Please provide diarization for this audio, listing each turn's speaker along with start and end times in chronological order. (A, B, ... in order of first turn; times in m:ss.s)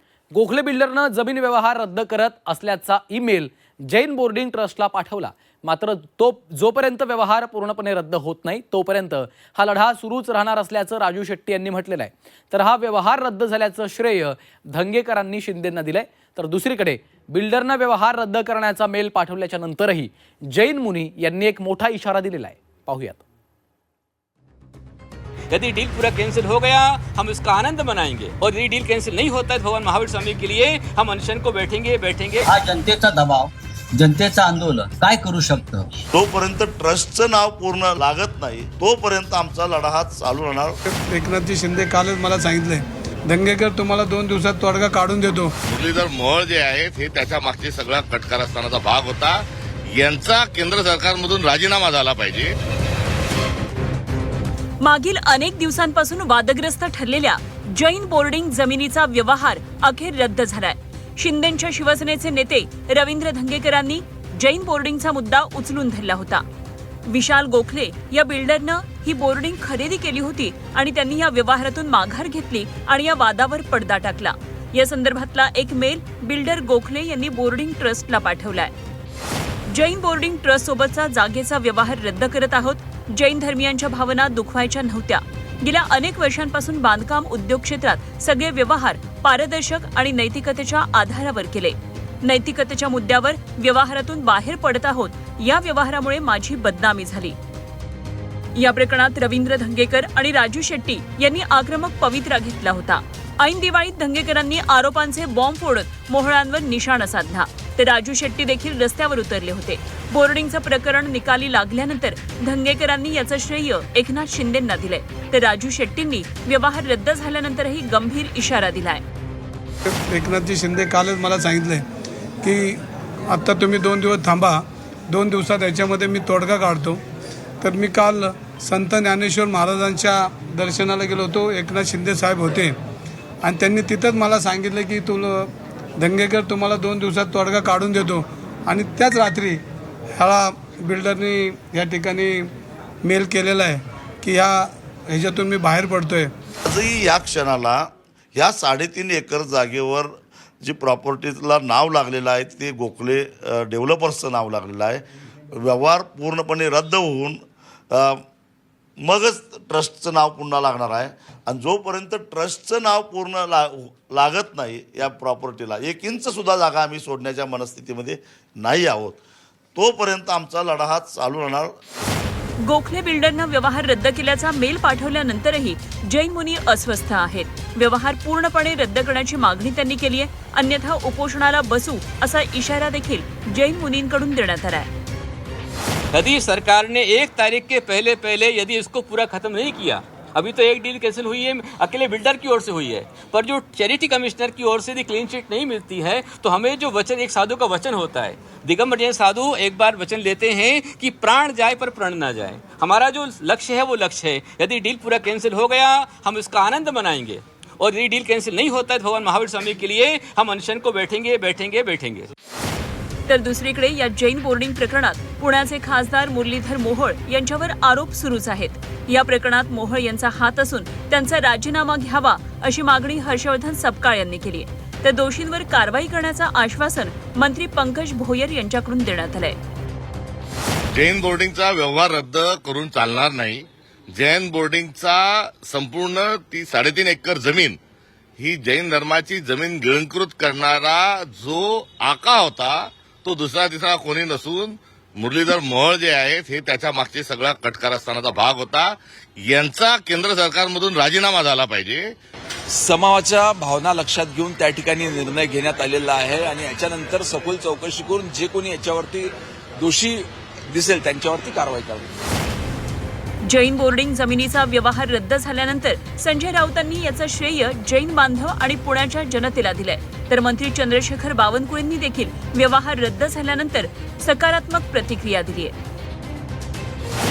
0:00.3-0:23.2 A
0:25.5-0:32.5 B
0:32.4-0:35.9 C
0:36.1-0:40.8 D
0:40.9-0:45.5 E
0:45.7-0:52.5 F
0:54.8-1:06.4 G
1:07.1-1:18.7 G
1:19.7-1:37.4 G
1:38.6-1:59.0 G
1:59.9-2:01.8 E
2:02.4-2:07.0 E
2:07.6-2:12.7 E
2:13.4-2:19.6 E
2:20.2-2:22.5 E
2:23.0-2:26.3 E
2:26.6-2:30.1 D
2:30.6-2:35.0 D
2:35.5-2:37.4 D
2:37.9-2:38.2 D
2:39.0-2:49.2 D
2:49.8-2:51.7 D
2:52.7-3:04.9 G
3:06.1-3:32.3 B
3:33.3-3:49.6 G
3:50.9-3:57.8 F
3:58.4-4:12.1 F
4:12.8-4:22.1 H
4:23.4-4:35.7 G